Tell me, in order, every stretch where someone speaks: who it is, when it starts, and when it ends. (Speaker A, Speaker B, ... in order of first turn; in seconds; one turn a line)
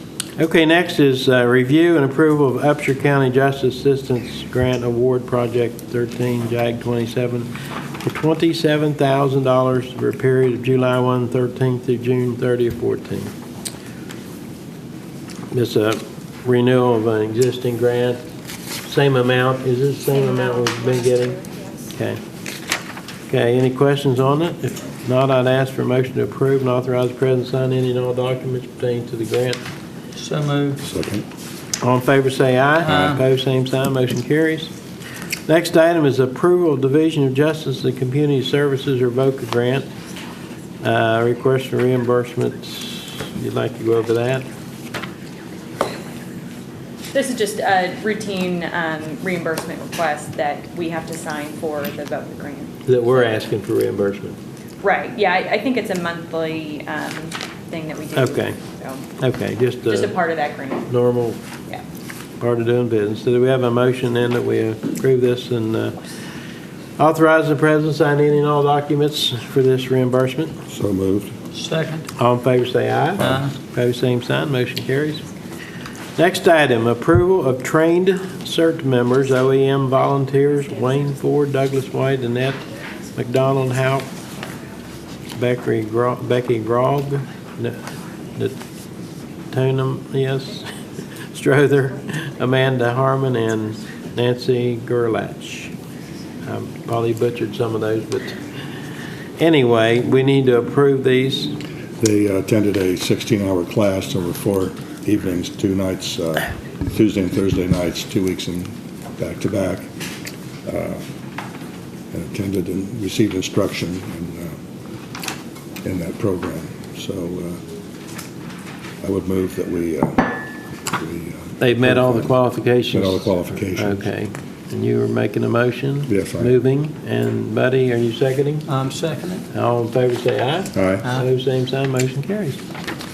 Speaker A: 0.4-13.3
Speaker A: 15.5-18.2
Speaker A: 18.8-21.4
Speaker B: 20.1-21.9
Speaker A: 21.9-22.2
Speaker A: 23.3-29.6
Speaker C: 30.2-30.8
Speaker D: 30.8-31.3
Speaker A: 31.8-34.7
Speaker C: 32.8-33.2
Speaker A: 35.5-39.9
Speaker A: 40.8-44.5
Speaker B: 47.1-53.3
Speaker A: 52.9-54.4
Speaker B: 54.8-59.1
Speaker A: 58.1-58.6
Speaker A: 59.2-60.1
Speaker B: 59.9-60.9
Speaker A: 60.9-61.4
Speaker A: 62.4-66.0
Speaker A: 67.0-70.6
Speaker D: 70.7-71.3
Speaker C: 71.6-72.1
Speaker A: 72.2-75.3
Speaker A: 76.2-82.6
Speaker A: 83.2-84.1
Speaker A: 85.3-87.8
Speaker A: 89.5-90.8
Speaker A: 91.3-95.7
Speaker A: 96.5-98.4
Speaker A: 99.4-101.6
Speaker D: 102.0-109.9
Speaker D: 110.7-111.0
Speaker D: 112.1-114.6
Speaker D: 115.8-117.6
Speaker D: 119.0-120.4
Speaker D: 121.0-122.3
Speaker A: 121.6-128.7
Speaker D: 122.9-124.0
Speaker D: 126.1-126.6
Speaker C: 128.7-129.4
Speaker A: 129.5-132.6
Speaker D: 130.8-131.1